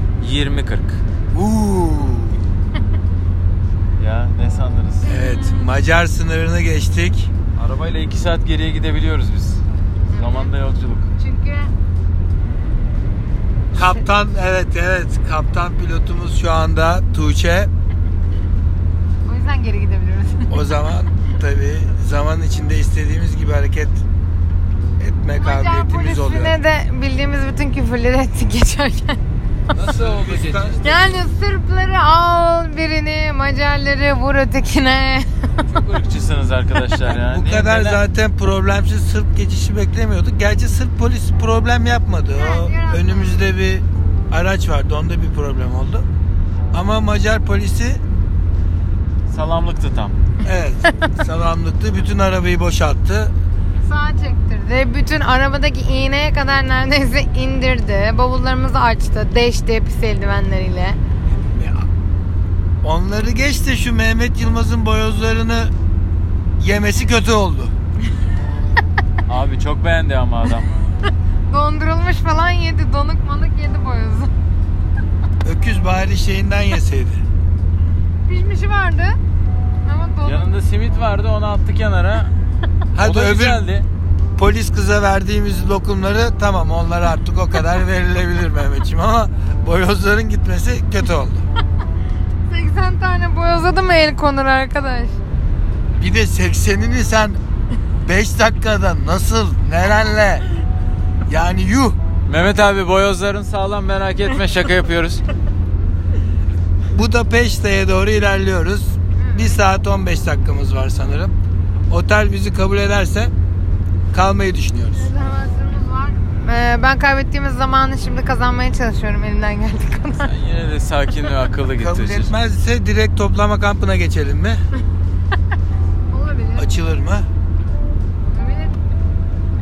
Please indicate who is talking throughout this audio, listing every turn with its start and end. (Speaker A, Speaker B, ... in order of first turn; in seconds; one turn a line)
Speaker A: 0.2-1.0
Speaker B: 1.3-2.4
Speaker A: 4.0-5.2
Speaker C: 5.0-5.7
Speaker B: 5.0-7.3
Speaker A: 7.5-9.6
Speaker C: 10.1-10.5
Speaker A: 10.1-11.1
Speaker C: 11.2-11.7
Speaker C: 13.7-14.0
Speaker B: 13.7-17.7
Speaker C: 19.2-20.7
Speaker B: 20.5-24.0
Speaker B: 25.0-26.5
Speaker C: 25.4-29.2
Speaker B: 29.7-31.0
Speaker A: 29.7-30.8
Speaker C: 30.8-35.5
Speaker A: 35.6-38.0
Speaker B: 37.0-46.0
Speaker C: 42.3-43.5
Speaker B: 46.7-48.0
Speaker A: 49.3-50.1
Speaker B: 50.4-53.3
Speaker C: 53.8-61.0
Speaker B: 61.5-61.8
Speaker B: 62.8-65.7
Speaker B: 66.6-67.7
Speaker A: 69.3-70.8
Speaker C: 71.5-74.3
Speaker B: 75.4-77.2
Speaker C: 78.2-79.2
Speaker C: 79.8-80.5
Speaker A: 80.2-82.3
Speaker B: 82.9-83.6
Speaker A: 83.0-83.8
Speaker B: 84.3-91.5
Speaker C: 92.5-95.2
Speaker B: 96.0-97.4
Speaker B: 98.0-100.4
Speaker B: 101.3-102.0
Speaker A: 102.3-105.2
Speaker B: 106.9-111.3
Speaker C: 109.2-109.6
Speaker B: 111.9-113.3
Speaker B: 114.1-115.1
Speaker C: 114.9-120.3
Speaker A: 120.2-122.3
Speaker B: 121.8-124.6
Speaker C: 126.1-126.7
Speaker B: 126.5-127.3
Speaker C: 128.3-128.8